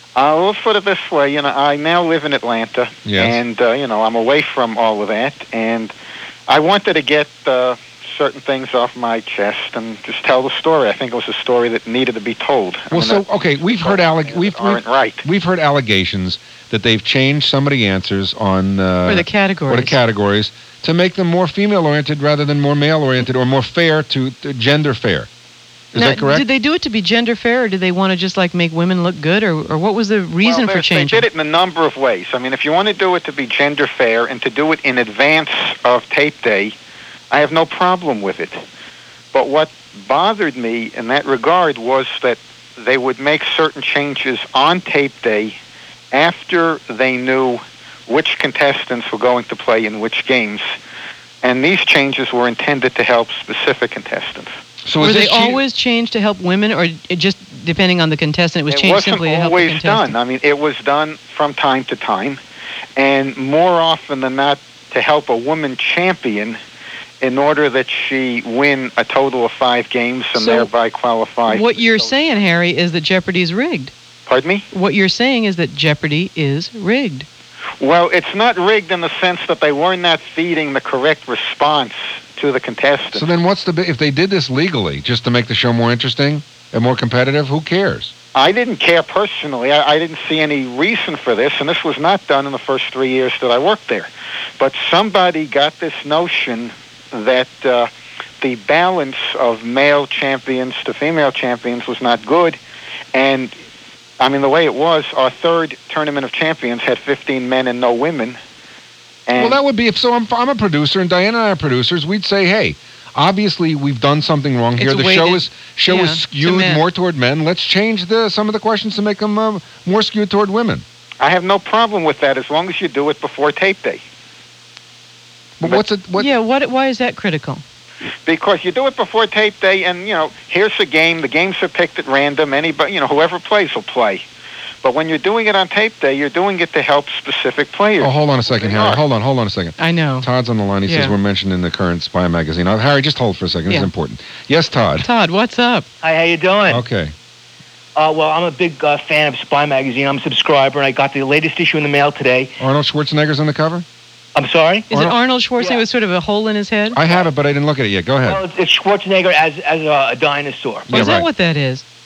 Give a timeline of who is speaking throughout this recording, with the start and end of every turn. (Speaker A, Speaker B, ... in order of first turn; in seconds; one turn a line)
Speaker A: 0.1-5.9
Speaker B: 3.0-3.4
Speaker A: 6.5-15.2
Speaker B: 12.9-25.3
Speaker C: 19.1-20.0
Speaker B: 25.9-26.4
Speaker C: 25.9-31.2
Speaker A: 30.4-36.7
Speaker A: 37.3-38.6
Speaker A: 39.3-45.6
Speaker A: 46.1-50.7
Speaker A: 51.4-54.5
Speaker B: 54.8-55.6
Speaker C: 55.0-60.1
Speaker A: 58.7-62.4
Speaker A: 63.0-66.6
Speaker A: 67.2-72.5
Speaker C: 70.4-70.7
Speaker C: 71.5-73.9
Speaker A: 74.3-74.6
Speaker C: 74.7-77.3
Speaker A: 77.8-83.3
Speaker B: 83.1-88.1
Speaker A: 88.3-97.9
Speaker A: 98.4-102.6
Speaker A: 103.1-103.5
Speaker A: 104.2-108.4
Speaker A: 109.3-109.6
Speaker B: 109.4-120.8
Speaker C: 114.8-116.8
Speaker A: 121.2-124.0
Speaker B: 125.6-126.3
Speaker C: 126.2-127.6
Speaker A: 128.2-134.2
Speaker A: 134.8-139.0
Speaker B: 138.0-145.1
Speaker C: 139.8-140.3
Speaker C: 140.8-141.1
Speaker C: 145.0-145.8
Speaker D: 146.0-146.8
Speaker B: 146.7-147.1
Speaker D: 147.9-152.5
Speaker B: 152.6-153.8
Speaker D: 154.3-154.9
Speaker C: 154.9-157.0
Speaker D: 155.6-155.8
Speaker B: 156.9-158.4
Speaker D: 158.2-161.0
Speaker B: 160.9-161.3
Speaker C: 160.9-161.8